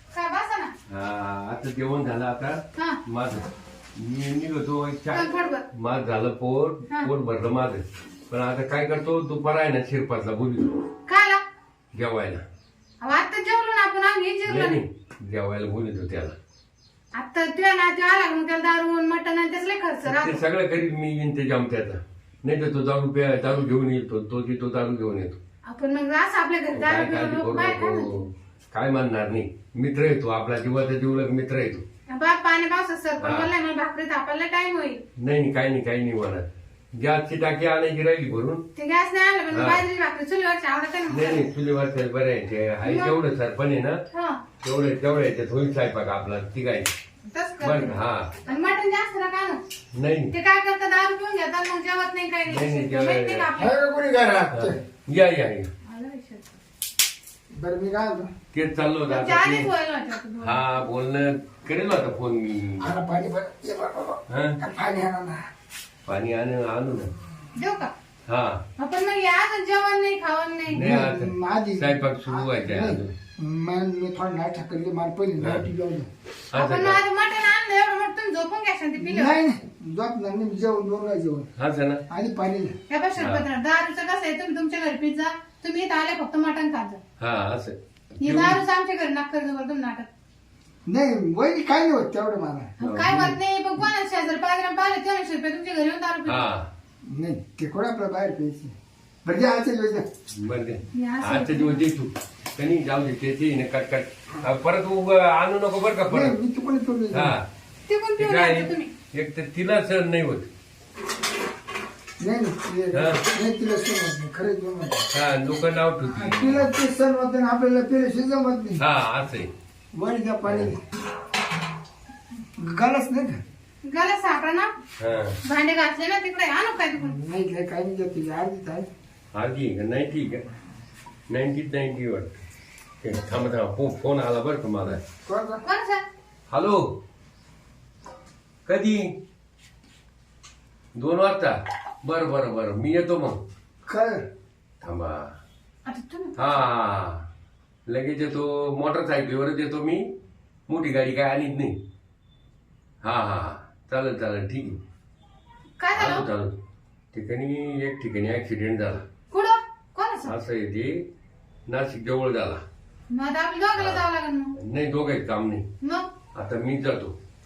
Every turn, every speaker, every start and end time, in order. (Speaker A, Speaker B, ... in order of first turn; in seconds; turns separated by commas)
Speaker A: 0.1-0.7, Speaker B: 0.9-10.7, Speaker A: 5.1-5.6, Speaker A: 11.1-11.4, Speaker B: 11.9-12.4, Speaker A: 13.0-14.8, Speaker B: 14.5-16.4, Speaker A: 17.1-20.4, Speaker B: 20.1-25.4, Speaker A: 25.6-28.2, Speaker B: 26.8-31.8, Speaker A: 32.1-35.0, Speaker B: 33.2-33.5, Speaker B: 35.2-38.6, Speaker A: 38.8-41.5, Speaker B: 39.5-39.8, Speaker B: 41.1-44.0, Speaker A: 42.8-43.2, Speaker A: 44.1-44.4, Speaker B: 44.6-46.9, Speaker A: 47.3-47.9, Speaker B: 47.6-48.3, Speaker A: 48.5-49.6, Speaker B: 50.0-50.3, Speaker A: 50.3-53.8, Speaker B: 52.5-53.5, Speaker C: 53.6-54.8, Speaker B: 54.5-55.7, Speaker A: 55.9-56.5, Speaker C: 57.5-58.3, Speaker B: 58.5-59.7, Speaker A: 59.1-60.6, Speaker B: 60.4-63.0, Speaker C: 62.8-65.4, Speaker B: 64.3-64.6, Speaker B: 66.1-67.1, Speaker A: 67.6-67.9, Speaker B: 68.3-68.6, Speaker A: 68.8-70.8, Speaker B: 70.7-73.1, Speaker C: 70.7-76.1, Speaker B: 75.4-75.7, Speaker B: 76.5-77.0, Speaker A: 76.5-79.3, Speaker C: 79.0-81.5, Speaker B: 81.6-82.0, Speaker C: 82.1-82.8, Speaker A: 82.9-87.0, Speaker B: 83.2-83.4, Speaker B: 87.2-88.6, Speaker A: 88.2-90.1, Speaker C: 90.9-92.7, Speaker A: 92.8-96.5, Speaker B: 92.8-93.4, Speaker B: 96.3-96.7, Speaker C: 97.1-100.0, Speaker B: 100.4-106.4, Speaker A: 100.9-101.8, Speaker C: 106.1-107.3, Speaker B: 107.1-107.5, Speaker A: 107.9-108.9, Speaker B: 108.2-110.5, Speaker C: 112.2-115.1, Speaker B: 112.9-113.2, Speaker B: 115.1-116.7, Speaker C: 116.1-118.8, Speaker B: 118.8-119.5, Speaker C: 119.9-120.8, Speaker B: 120.5-120.7, Speaker C: 122.6-123.4, Speaker A: 123.9-124.7, Speaker B: 125.0-125.4, Speaker A: 125.5-127.2, Speaker C: 127.0-128.9, Speaker B: 129.3-130.4, Speaker B: 131.3-132.4, Speaker B: 133.0-135.0, Speaker C: 135.2-135.6, Speaker A: 135.7-136.0, Speaker B: 136.5-136.8, Speaker B: 138.7-139.0, Speaker B: 140.9-143.4, Speaker C: 143.9-144.2, Speaker B: 144.8-145.3, Speaker A: 145.9-146.6, Speaker B: 146.4-147.2, Speaker B: 147.9-150.0, Speaker B: 150.7-151.8, Speaker B: 153.0-154.8, Speaker A: 155.8-156.2, Speaker B: 155.9-156.5, Speaker B: 157.1-159.0, Speaker A: 159.3-160.3, Speaker B: 160.3-161.0, Speaker B: 161.7-162.6, Speaker A: 163.1-164.5, Speaker B: 163.8-164.0, Speaker B: 164.6-165.6, Speaker A: 165.8-166.1, Speaker B: 166.3-167.1